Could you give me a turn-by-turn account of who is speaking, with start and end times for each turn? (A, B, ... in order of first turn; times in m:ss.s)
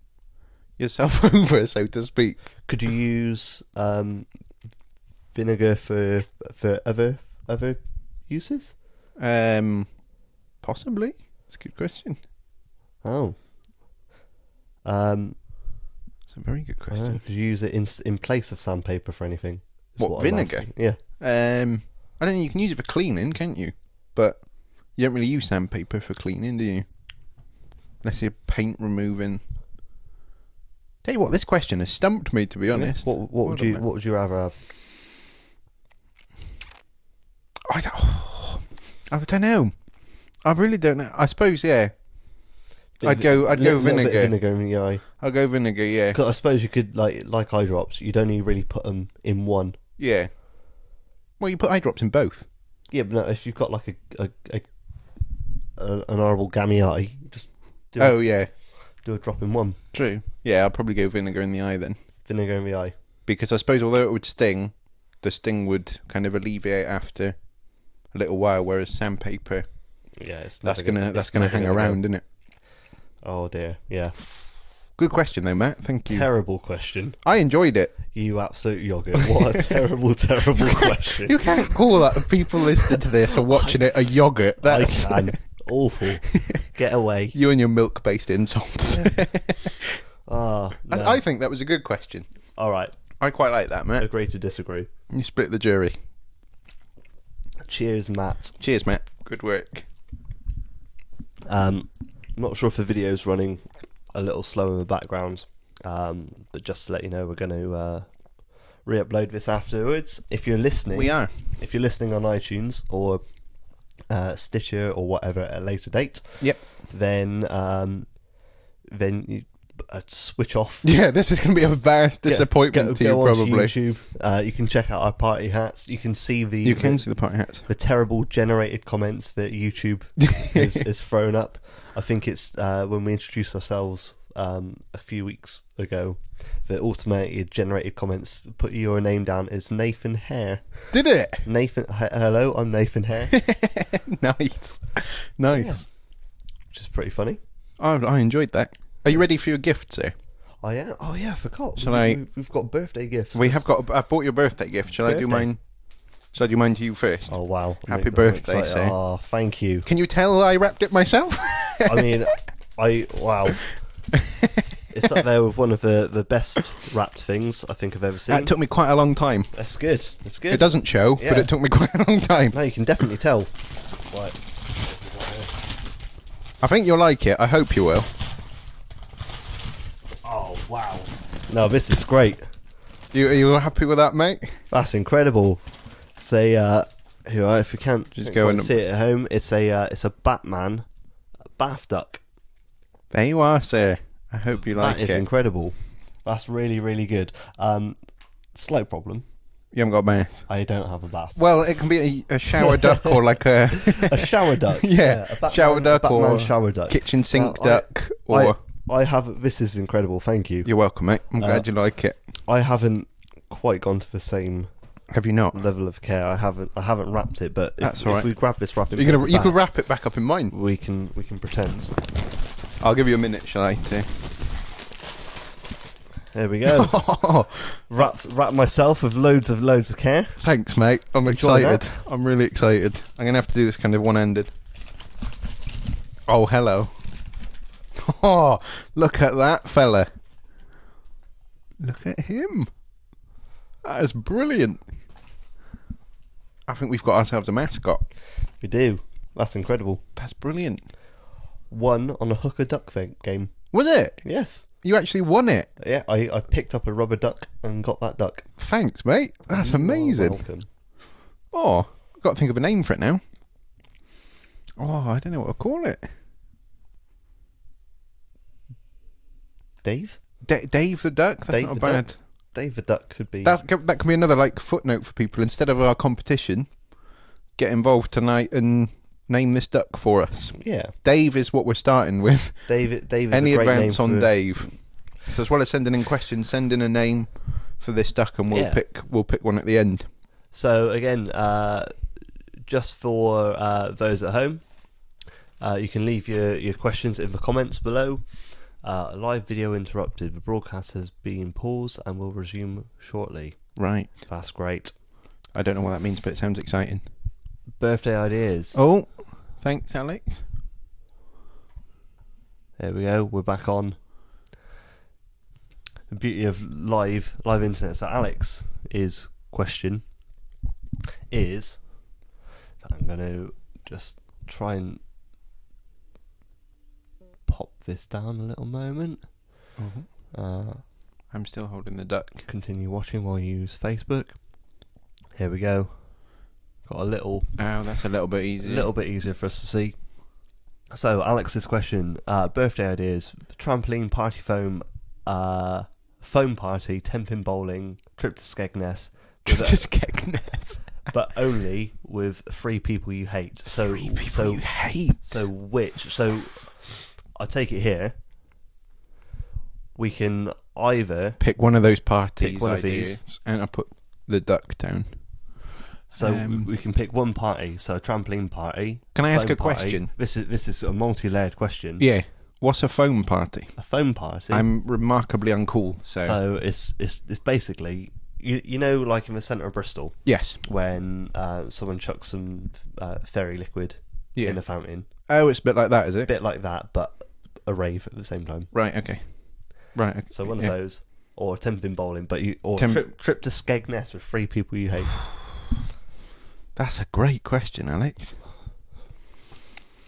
0:00.8-0:02.4 A
0:02.6-0:04.3 B
0:05.3-0:08.8 B
0:09.2-0:09.9 A
0:10.6-0:12.2 A
0:13.0-0:13.4 B
0:14.8-0:15.4 B
0:16.3-0:17.2 A
0:16.9-0:21.0 B
0:20.0-0:26.8 A
0:28.0-0:29.4 A
0:31.0-0:33.8 A
0:32.7-0:34.6 B
0:37.7-0:39.7 A
0:40.4-0:41.9 A
0:43.0-0:45.0 B
0:43.0-0:44.4 A
0:45.2-0:46.2 A
0:46.1-0:49.8 B
0:50.0-0:50.3 A
0:51.4-0:52.4 A
0:52.9-0:54.7 B
0:55.8-0:58.3 B
0:58.0-0:58.5 A
0:59.0-0:59.8 B
0:59.9-1:02.0 A
1:02.2-1:02.9 B
1:03.2-1:07.4 A
1:08.1-1:09.6 A
1:10.2-1:12.0 B
1:10.6-1:12.2 A
1:13.2-1:14.2 B
1:14.9-1:16.3 A
1:16.1-1:17.2 B
1:17.2-1:18.0 A
1:18.1-1:23.8 B
1:21.1-1:25.4 A
1:24.6-1:27.4 B
1:26.3-1:26.6 A
1:27.3-1:30.0 A
1:28.9-1:29.2 B
1:30.2-1:31.2 B
1:30.9-1:32.3 A
1:32.6-1:32.9 B
1:33.2-1:34.1 A
1:34.0-1:34.9 B
1:35.1-1:36.0 A
1:37.6-1:38.6 B
1:38.6-1:39.8 A
1:41.5-1:48.1 B
1:48.8-1:53.2 B
1:50.9-1:51.3 A
1:54.1-1:58.2 B
1:58.9-2:00.9 B
2:00.8-2:03.7 A
2:02.2-2:23.3 B
2:06.6-2:07.7 A
2:20.9-2:21.4 A
2:23.3-2:25.8 A
2:25.5-2:25.9 B
2:26.7-2:27.4 B
2:27.8-2:30.1 A
2:30.6-2:33.7 B
2:31.8-2:32.2 A
2:33.3-2:35.6 A
2:35.0-2:35.5 B
2:36.3-2:38.9 A
2:37.3-2:39.9 B
2:39.8-2:42.1 A
2:41.8-2:43.7 B
2:44.1-2:44.6 A
2:44.9-2:48.5 B
2:48.3-2:49.5 A
2:49.5-2:51.5 B
2:50.5-2:52.6 A
2:52.5-2:53.5 B
2:54.1-2:55.6 B
2:56.6-2:58.1 A
3:00.2-3:02.5 B
3:03.1-3:04.6 A
3:04.7-3:10.9 B
3:08.1-3:08.7 A
3:11.6-3:12.2 B
3:13.1-3:15.2 A
3:14.7-3:18.0 B
3:18.5-3:19.2 B
3:19.7-3:20.5 A
3:20.5-3:21.4 B
3:21.4-3:28.6 A
3:22.6-3:23.1 B
3:23.8-3:30.7 B
3:30.6-3:32.2 A
3:31.4-3:31.7 B
3:32.4-3:34.7 B
3:35.1-3:35.6 A
3:35.5-3:39.6 B
3:37.8-3:38.3 A
3:38.9-3:40.5 A
3:40.5-3:41.9 B
3:42.8-3:44.1 A
3:46.3-3:47.0 B
3:46.6-3:48.0 A
3:47.9-3:50.4 B
3:50.4-3:54.5 A
3:51.3-3:52.0 B
3:56.3-3:56.9 A
3:57.9-4:00.1 A
4:01.8-4:02.7 A
4:03.8-4:04.8 A
4:06.7-4:08.0 A
4:08.6-4:10.0 B
4:10.2-4:10.8 A
4:11.7-4:13.6 B
4:13.7-4:14.2 A
4:14.2-4:14.7 B
4:14.7-4:15.7 A
4:15.8-4:18.5 B
4:18.6-4:20.4 A
4:19.5-4:20.7 B
4:21.5-4:23.2 A
4:24.8-4:26.1 A
4:29.8-4:30.2 B
4:30.4-4:32.2 A
4:31.5-4:33.6 B
4:33.4-4:36.8 A
4:37.6-4:42.7 A
4:40.6-4:40.9 B
4:42.6-4:44.7 B
4:43.3-4:50.1 A
4:48.5-4:48.8 B
4:50.5-4:51.9 B
4:52.6-4:54.6 B
4:55.6-5:04.9 B
5:03.8-5:04.1 A
5:05.5-5:07.0 A
5:07.8-5:08.8 B
5:08.7-5:10.4 A
5:12.8-5:14.0 B
5:16.1-5:20.0 B
5:21.3-5:21.8 B
5:22.8-5:25.0 B
5:27.5-5:29.3 B
5:29.8-5:30.1 A
5:30.3-5:30.8 B
5:31.3-5:32.4 A
5:32.4-5:34.4 B
5:35.4-5:36.3 B
5:36.8-5:37.6 B
5:37.6-5:38.9 A
5:38.6-5:40.0 B
5:40.9-5:49.9 B
5:49.4-5:51.1 A
5:51.0-5:58.1 B
5:53.6-5:55.4 A
6:00.0-6:01.4 B
6:01.4-6:05.2 A
6:02.4-6:03.2 B
6:06.1-6:12.0 B
6:06.2-6:06.7 A
6:09.1-6:10.1 A
6:12.0-6:13.8 A
6:13.8-6:14.7 B
6:14.5-6:16.4 A
6:16.2-6:25.1 B
6:20.2-6:20.6 A
6:25.2-6:26.3 A
6:26.2-6:28.7 B
6:28.7-6:30.7 A
6:30.3-6:35.3 B
6:32.8-6:33.1 A
6:36.7-6:38.4 A